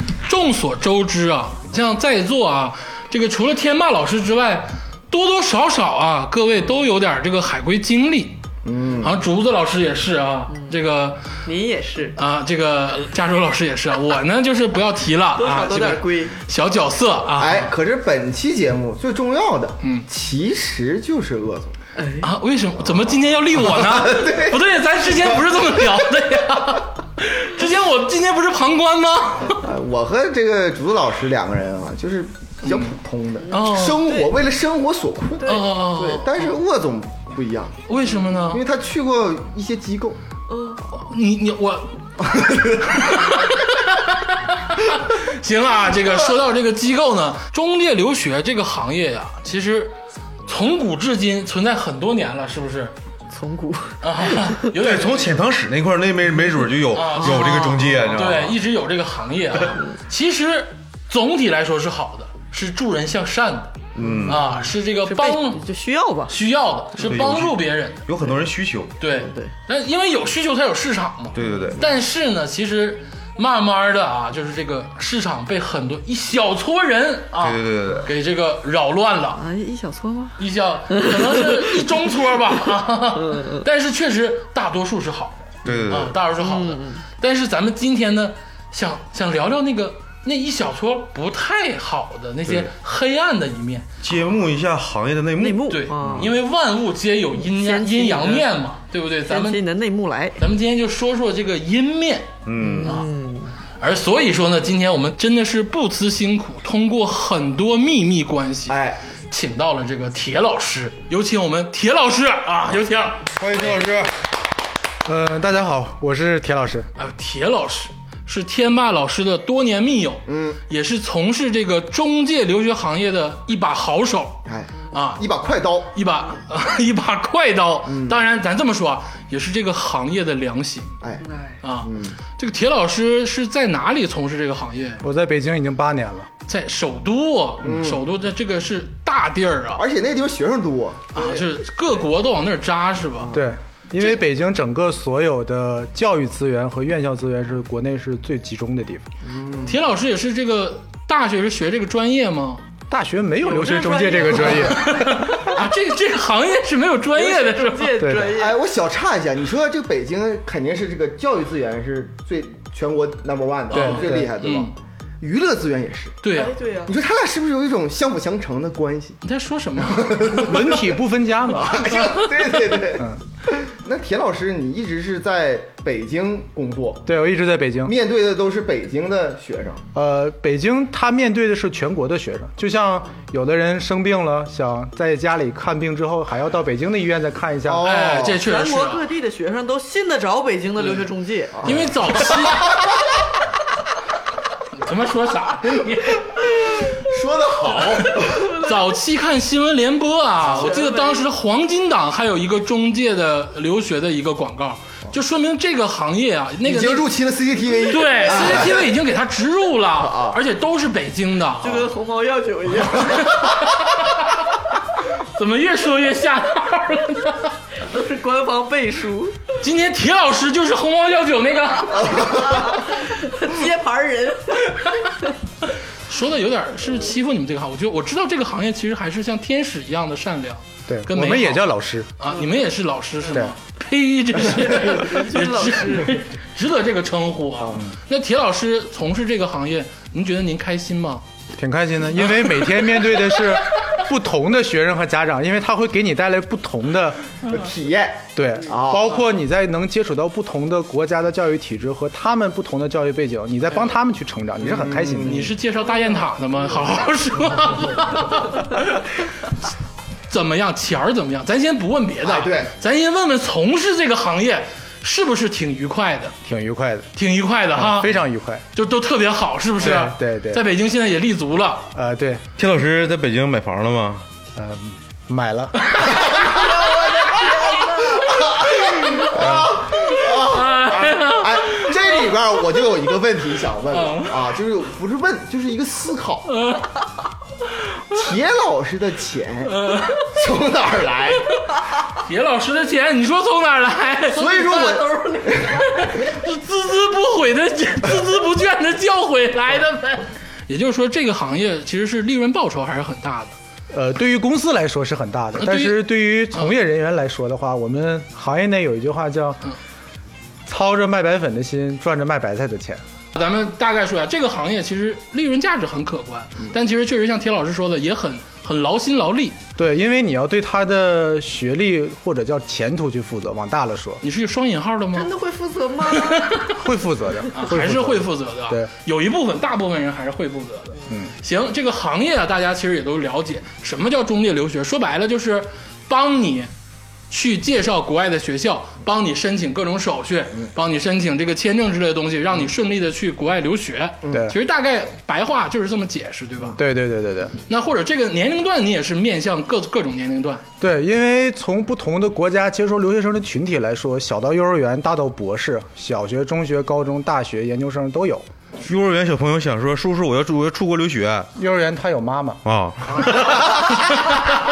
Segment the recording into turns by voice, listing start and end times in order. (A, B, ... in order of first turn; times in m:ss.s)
0:00.2-0:08.4 A
0:08.6-0:09.2 B
0:09.0-0:11.2 A
0:11.4-0:12.2 C
0:12.2-0:17.7 A
0:15.4-0:16.4 C
0:17.4-0:21.8 B
0:19.8-0:20.1 A
0:22.0-0:22.3 C
0:22.2-0:29.6 A
0:23.5-0:25.8 B
0:29.5-0:37.8 B
0:32.6-0:32.9 A
0:33.5-0:34.3 C
0:33.5-0:34.0 A
0:35.4-0:35.6 C
0:35.4-0:36.5 A
0:37.9-0:38.6 A
0:38.5-0:40.2 B
0:40.5-0:40.8 C
0:40.9-0:41.9 A
0:42.2-0:42.9 B
0:42.8-0:49.9 A
0:50.5-0:52.9 A
0:53.3-0:54.6 C
0:54.0-0:55.4 A
0:54.7-0:58.6 D
0:56.9-1:03.7 A
1:03.9-1:04.5 D
1:04.2-1:05.6 A
1:05.0-1:06.3 C
1:06.3-1:08.0 A
1:07.0-1:08.9 D
1:09.0-1:19.4 A
1:11.3-1:11.8 D
1:17.4-1:18.1 D
1:19.4-1:20.4 C
1:20.4-1:33.9 A
1:20.9-1:21.8 C
1:23.2-1:23.6 C
1:25.6-1:26.2 D
1:26.4-1:27.0 C
1:34.0-1:36.3 D
1:35.4-1:36.3 C
1:35.7-1:39.6 A
1:37.4-1:38.5 C
1:39.2-1:40.4 C
1:40.4-1:42.3 A
1:42.4-1:42.9 D
1:42.6-1:43.5 C
1:43.8-1:48.8 A
1:48.7-1:49.0 B
1:49.3-1:53.3 A
1:53.4-1:54.0 D
1:53.6-1:54.0 B
1:55.0-1:56.9 E
1:57.0-2:04.4 A
2:00.3-2:00.6 B
2:04.4-2:05.9 B
2:04.9-2:05.2 A
2:05.9-2:10.9 A
2:07.8-2:08.2 B
2:11.2-2:11.6 C
2:11.6-2:15.0 A
2:11.8-2:12.2 B
2:15.0-2:16.3 E
2:16.5-2:19.8 A
2:17.6-2:18.0 B
2:19.8-2:21.5 B
2:21.1-2:23.4 A
2:23.3-2:29.1 E
2:29.2-2:29.7 B
2:29.6-2:32.6 A
2:32.9-2:35.3 E
2:33.4-2:34.9 C
2:34.4-2:38.0 A
2:37.1-2:38.6 C
2:38.0-2:38.4 E
2:38.3-2:46.2 B
2:43.7-2:44.7 A
2:43.7-2:44.3 E
2:46.2-2:46.5 A
2:46.3-2:46.9 C
2:46.8-2:49.2 B
2:49.2-2:50.2 A
2:49.8-2:57.1 B
2:50.3-2:52.0 E
2:52.9-2:53.2 E
2:57.0-2:57.9 E
2:57.8-2:59.8 B
2:59.9-3:07.9 E
3:07.6-3:08.4 B
3:07.8-3:09.0 A
3:08.4-3:11.6 C
3:10.8-3:11.0 A
3:11.6-3:12.4 B
3:11.6-3:12.8 A
3:14.7-3:16.8 A
3:16.9-3:18.5 B
3:18.0-3:27.1 A
3:20.4-3:20.7 B
3:20.4-3:21.3 C
3:26.6-3:28.9 B
3:27.9-3:31.8 A
3:30.0-3:30.4 B
3:31.6-3:33.4 C
3:32.9-3:34.5 A
3:35.2-3:37.5 A
3:37.8-3:39.4 C
3:39.6-3:42.3 A
3:42.0-3:42.8 B
3:42.2-3:45.3 C
3:46.1-4:01.2 A
3:50.9-3:52.1 E
3:54.4-3:56.2 C
4:01.6-4:07.2 E
4:02.2-4:03.4 A
4:07.5-4:09.2 B
4:08.3-4:15.5 E
4:14.6-4:15.5 B
4:15.2-4:19.3 A
4:20.3-4:26.3 A
4:22.2-4:22.7 B
4:26.4-4:27.1 E
4:27.2-4:28.2 A
4:27.7-4:28.6 E
4:28.7-4:31.9 A
4:29.8-4:30.6 E
4:31.9-4:32.4 E
4:32.6-4:34.2 D
4:34.5-4:35.8 E
4:36.3-4:38.2 C
4:38.1-4:46.5 B
4:39.3-4:39.8 E
4:40.4-4:42.2 A
4:43.9-4:44.4 A
4:46.5-4:47.0 A
4:48.1-4:51.5 B
4:49.7-4:50.3 A
4:52.1-4:54.5 A
4:54.3-4:55.9 C
4:54.4-4:55.8 B
4:56.0-5:03.6 A
5:03.9-5:09.6 E
5:05.6-5:06.7 A
5:10.6-5:13.0 E
5:13.3-5:19.6 A
5:19.8-5:24.2 E
5:24.2-5:25.3 A
5:25.1-5:26.6 C
5:26.0-5:26.8 A
5:26.8-5:28.9 E
5:27.5-5:36.7 A
5:37.3-5:46.8 A
5:44.2-5:44.5 B
5:44.3-5:44.5 E
5:46.8-5:47.5 E
5:47.7-5:50.6 A
5:50.8-5:58.5 E
5:58.8-6:01.5 D
6:01.6-6:02.6 E
6:02.6-6:03.8 D